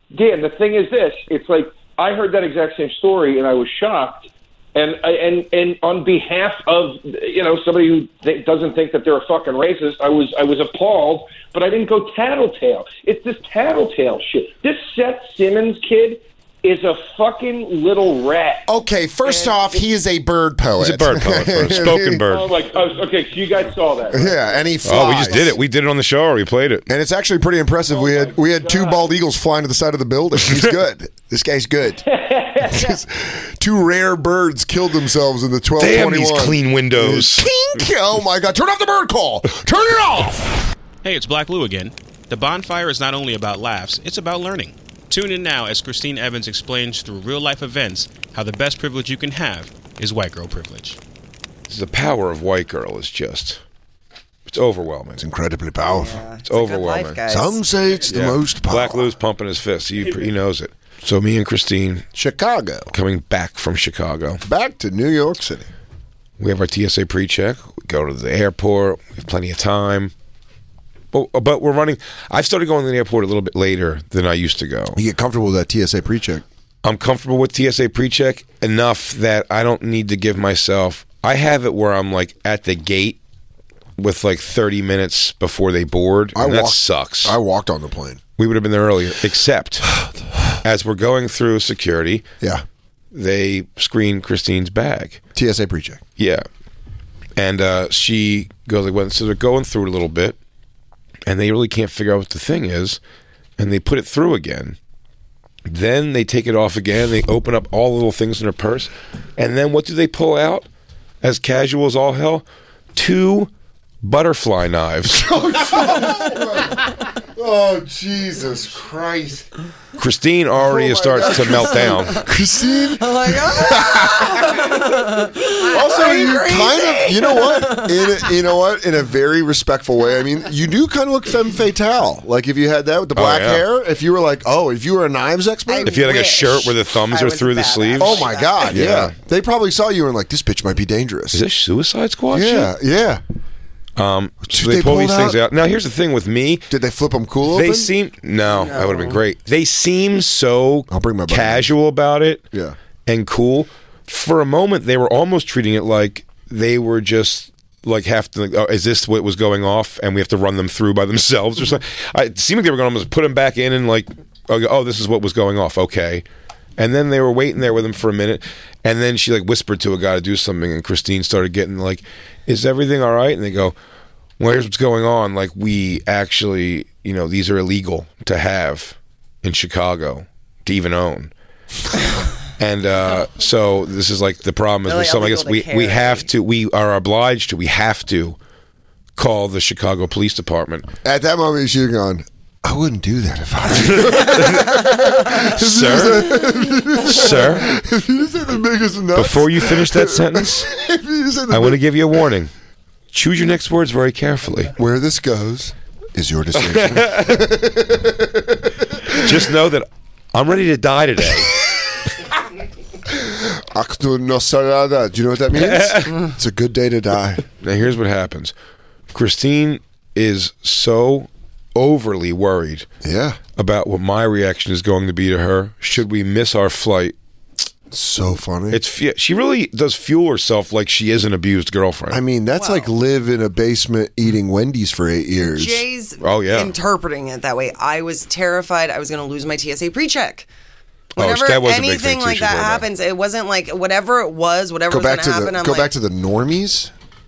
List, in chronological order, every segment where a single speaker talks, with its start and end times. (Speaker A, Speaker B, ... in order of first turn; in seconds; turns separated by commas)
Speaker A: 0.1-18.6, Speaker B: 18.7-22.2, Speaker A: 19.3-19.8, Speaker C: 20.8-22.5, Speaker A: 22.3-25.4, Speaker B: 24.1-25.6, Speaker C: 24.8-26.9, Speaker B: 26.9-32.0, Speaker A: 27.9-29.1, Speaker A: 32.1-32.9, Speaker B: 32.6-40.6, Speaker C: 35.8-37.5, Speaker D: 41.0-51.0, Speaker C: 51.7-53.6, Speaker C: 54.5-55.2, Speaker B: 55.2-56.2, Speaker E: 55.8-57.6, Speaker C: 56.4-57.2, Speaker B: 57.3-59.1, Speaker C: 58.1-62.1, Speaker B: 62.2-62.9, Speaker C: 62.9-64.4, Speaker B: 64.4-65.7, Speaker C: 66.4-70.1, Speaker C: 71.1-75.0, Speaker B: 75.0-76.4, Speaker C: 76.8-83.2, Speaker C: 84.0-87.4, Speaker B: 86.3-88.2, Speaker C: 88.4-89.9, Speaker C: 90.6-92.2, Speaker C: 93.1-95.2, Speaker B: 95.3-96.0, Speaker C: 96.2-96.4, Speaker C: 97.4-100.4, Speaker C: 101.3-103.0, Speaker C: 103.6-104.8, Speaker C: 105.7-110.7, Speaker C: 111.2-112.4, Speaker C: 113.0-113.5, Speaker C: 114.0-115.2, Speaker B: 115.1-119.5, Speaker C: 120.0-122.2, Speaker B: 120.6-124.5, Speaker E: 121.4-122.1, Speaker E: 122.7-128.2, Speaker B: 125.6-136.0, Speaker C: 133.2-133.6, Speaker E: 135.7-138.8, Speaker C: 135.8-138.1, Speaker B: 137.9-141.4, Speaker C: 138.6-139.1, Speaker C: 141.3-142.7, Speaker B: 142.3-143.2, Speaker C: 144.0-146.7, Speaker B: 144.4-145.4, Speaker B: 146.7-147.9, Speaker C: 147.5-152.4, Speaker E: 148.4-149.2, Speaker B: 150.9-151.7, Speaker C: 153.1-166.2, Speaker C: 166.8-173.7, Speaker C: 174.4-181.3, Speaker C: 182.6-188.4, Speaker E: 184.8-186.3, Speaker C: 189.2-190.9, Speaker B: 191.0-202.2, Speaker C: 193.9-194.9, Speaker C: 195.5-196.3, Speaker C: 197.0-197.7, Speaker C: 199.2-200.7, Speaker C: 201.5-202.5, Speaker C: 203.1-204.7, Speaker B: 204.8-208.8, Speaker C: 206.6-207.4, Speaker C: 209.1-211.6, Speaker B: 213.1-217.4, Speaker C: 215.5-216.2, Speaker C: 217.6-218.5, Speaker C: 219.1-222.9, Speaker B: 223.0-223.4, Speaker C: 223.6-227.2, Speaker B: 227.9-228.8, Speaker C: 228.7-232.2, Speaker B: 232.1-235.8, Speaker E: 232.6-232.9, Speaker E: 235.4-240.5, Speaker C: 236.2-236.7, Speaker E: 241.2-245.9, Speaker C: 241.2-242.9, Speaker B: 244.9-246.9